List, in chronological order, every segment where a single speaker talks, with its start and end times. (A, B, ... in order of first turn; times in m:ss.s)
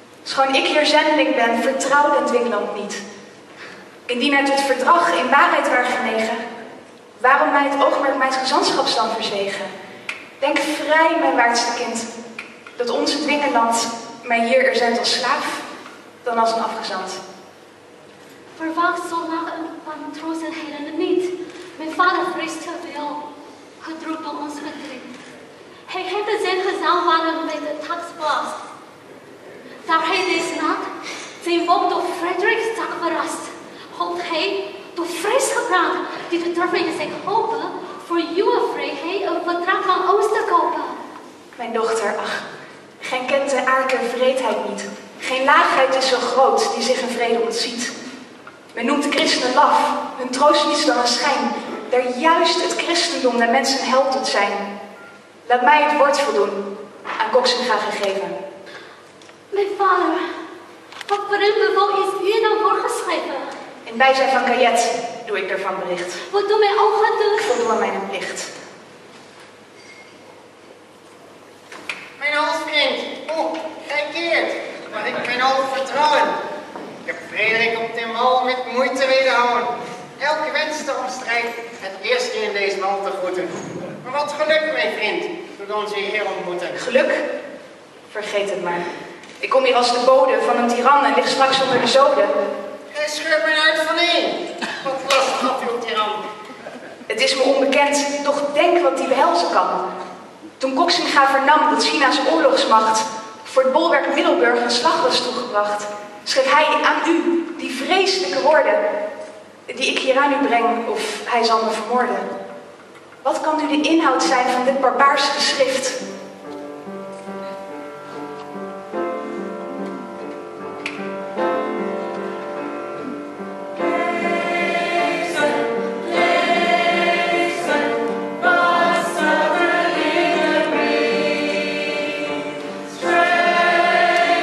0:00.2-0:03.0 A
0:04.1-0:06.4 A
0:07.2-0:09.7 A
0:10.4-0:12.1 A
0:12.8-0:15.6 A
0:16.2-0:17.2 A
0:18.6-0:23.2 B
0:23.8-0:25.1 B
0:25.9-0:28.6 B
0:29.8-0:30.9 B
0:31.4-0:41.0 B
0:41.6-0:42.4 A
0:43.0-0:47.9 A
0:48.7-0:54.7 A
0:55.4-0:56.6 A
0:57.2-0:58.4 A
0:59.5-1:00.2 B
1:01.1-1:03.5 B
1:03.8-1:06.2 A
1:06.3-1:07.5 B
1:07.4-1:08.5 A
1:12.2-1:16.4 C
1:17.0-1:26.8 C
1:26.8-1:27.2 A
1:28.1-1:28.9 A
1:29.4-1:32.3 A
1:32.9-1:36.2 C
1:37.1-1:39.8 A
1:40.6-1:48.8 A
1:49.7-1:52.3 A
1:53.2-1:56.0 A